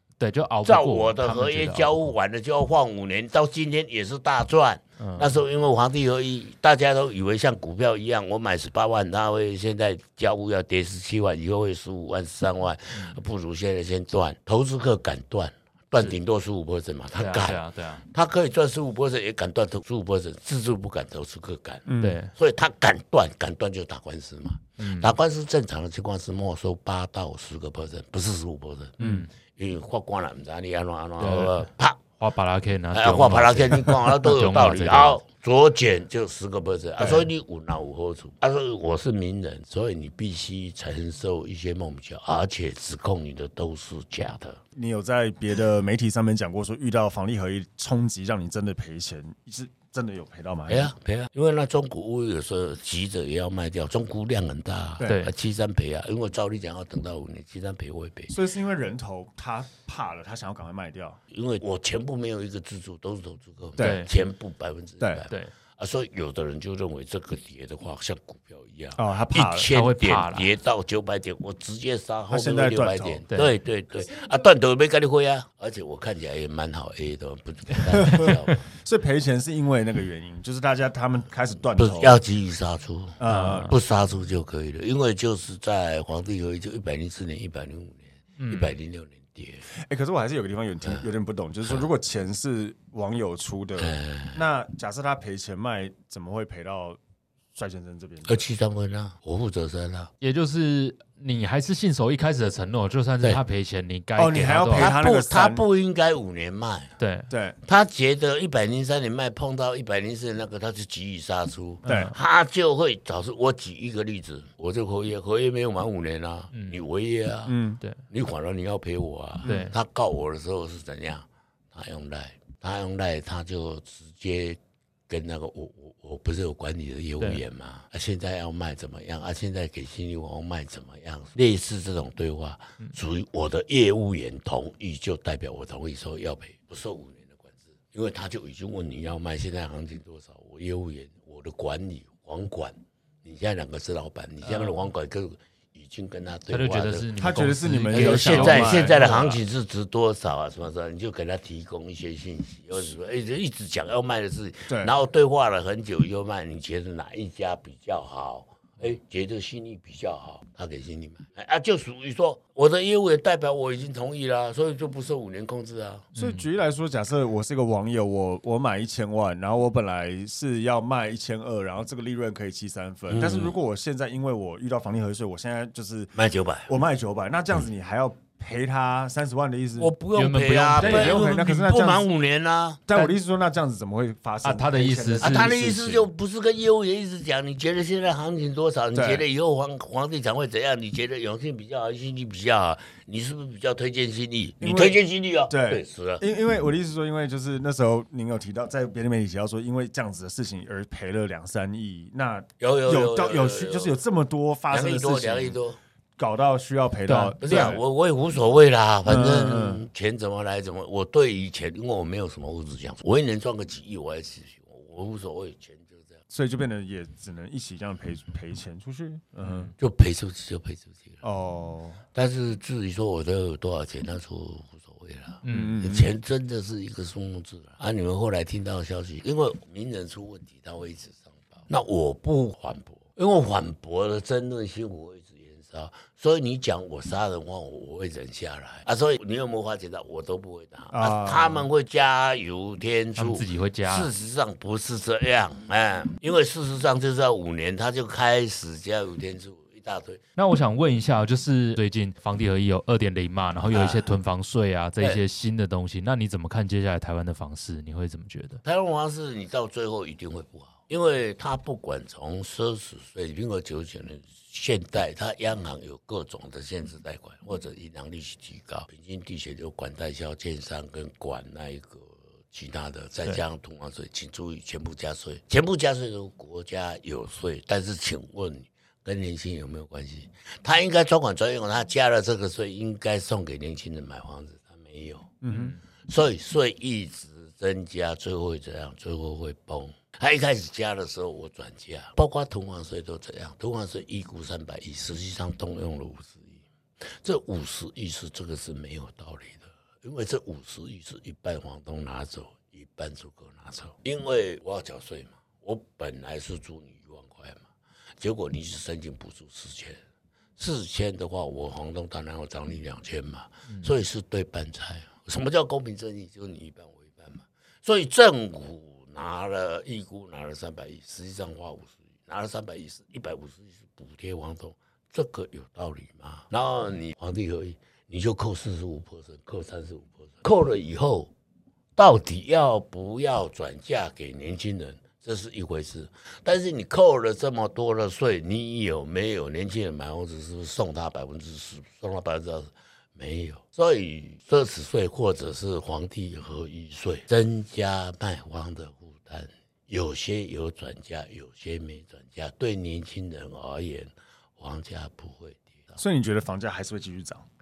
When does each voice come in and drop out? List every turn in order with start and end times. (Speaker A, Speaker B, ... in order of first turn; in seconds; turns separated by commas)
Speaker A: 0.2-1.9, Speaker B: 0.6-32.0, Speaker A: 5.0-5.4, Speaker A: 17.1-18.0, Speaker C: 21.9-22.2, Speaker A: 22.0-22.3, Speaker A: 24.8-25.1, Speaker A: 29.0-29.3, Speaker C: 29.0-29.3, Speaker A: 31.2-35.2, Speaker B: 32.9-44.6, Speaker C: 44.8-50.9, Speaker B: 50.7-58.4, Speaker C: 55.0-55.2, Speaker A: 55.0-55.3, Speaker C: 58.3-61.2, Speaker B: 61.3-78.7, Speaker C: 63.8-64.1, Speaker A: 63.8-64.1, Speaker C: 69.0-69.7, Speaker A: 69.7-70.5, Speaker C: 72.3-73.2, Speaker C: 78.1-82.2, Speaker B: 81.8-89.7, Speaker C: 83.2-83.8, Speaker A: 83.3-83.8, Speaker A: 88.4-88.8, Speaker C: 89.7-97.0, Speaker B: 93.8-94.4, Speaker C: 97.5-98.5, Speaker B: 98.3-100.1, Speaker A: 100.2-105.0, Speaker C: 104.2-105.6, Speaker B: 104.8-106.9, Speaker A: 107.0-107.3, Speaker C: 107.3-107.6, Speaker B: 107.6-117.6, Speaker A: 111.8-112.2, Speaker C: 111.8-112.1, Speaker A: 116.5-116.8, Speaker C: 117.5-117.8, Speaker B: 118.1-147.1, Speaker A: 119.5-119.7, Speaker C: 119.5-119.7, Speaker A: 144.4-144.8, Speaker A: 146.5-149.4, Speaker C: 147.2-149.2, Speaker B: 147.9-166.1, Speaker C: 154.7-154.9, Speaker A: 166.2-166.5, Speaker C: 166.2-176.1, Speaker B: 173.1-173.6, Speaker B: 176.2-176.8, Speaker C: 176.7-179.9, Speaker B: 179.8-182.8, Speaker A: 180.1-181.2, Speaker C: 180.8-182.1, Speaker C: 182.9-186.1, Speaker A: 182.9-183.2, Speaker A: 184.4-185.5, Speaker B: 185.2-196.2, Speaker C: 188.9-189.2, Speaker C: 194.6-195.0, Speaker C: 195.5-205.6, Speaker B: 202.6-204.0, Speaker B: 204.7-205.8, Speaker C: 206.2-207.8, Speaker A: 207.1-207.8, Speaker B: 207.4-216.2, Speaker C: 209.1-209.8, Speaker C: 216.3-219.7, Speaker A: 219.4-219.7, Speaker B: 219.8-221.2, Speaker C: 221.2-222.0, Speaker B: 222.1-250.2, Speaker A: 225.4-225.8, Speaker C: 225.5-226.1, Speaker C: 240.9-241.7, Speaker A: 243.2-244.1, Speaker A: 250.4-258.6, Speaker B: 253.7-254.1, Speaker B: 258.6-285.3, Speaker C: 285.4-285.8, Speaker A: 285.5-285.8, Speaker B: 286.1-307.7, Speaker B: 308.2-310.0, Speaker B: 310.6-331.3, Speaker B: 332.0-356.0, Speaker C: 356.0-357.4